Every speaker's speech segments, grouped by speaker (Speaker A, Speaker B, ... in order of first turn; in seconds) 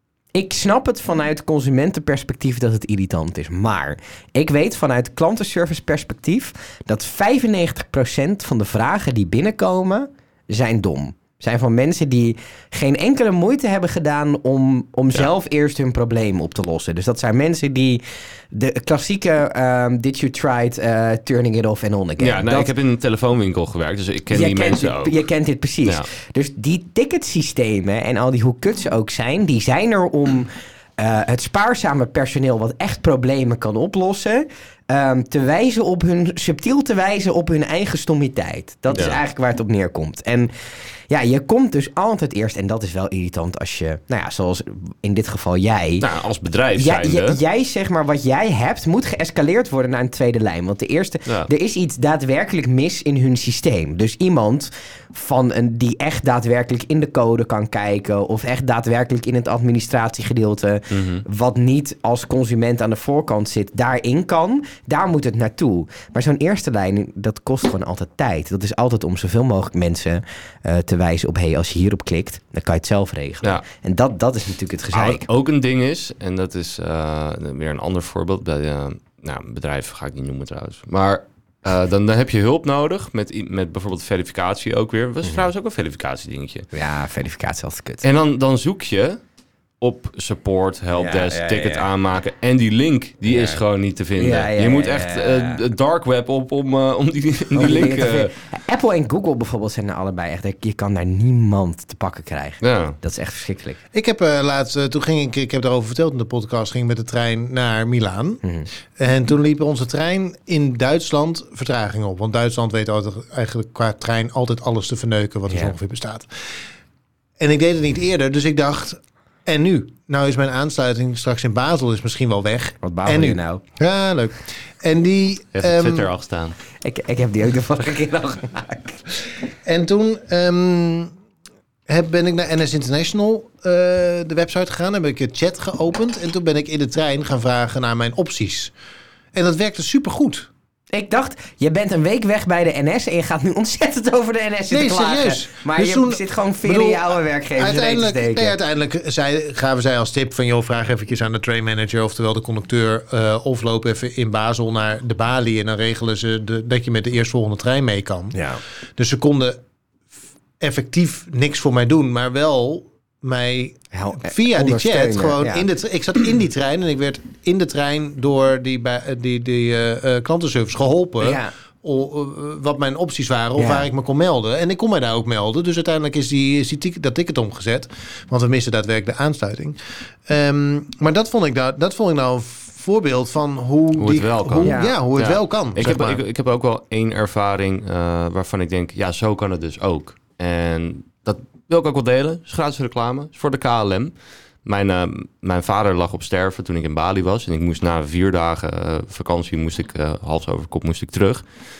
Speaker A: 0.3-22.7, 24.3-40.5, 41.1-46.0, 46.8-75.3, 86.7-88.0, 90.9-91.9, 93.3-93.6, 94.2-95.6, 97.5-103.8, 122.8-123.6, 126.8-129.0, 140.9-148.6, 158.3-158.6, 163.9-165.6, 171.2-171.5, 173.6-173.9, 184.6-184.9
Speaker B: 22.2-25.2, 38.9-39.2, 46.0-47.4, 60.9-61.2, 74.9-86.7, 88.0-89.2, 89.8-98.3, 102.6-103.0, 125.5-126.6, 184.0-194.1, 194.6-201.4
Speaker C: 103.9-108.4, 109.0-116.3, 117.4-126.1, 129.6-131.1, 131.9-138.7, 139.3-140.5, 144.7-158.4, 159.0-159.6, 160.6-186.2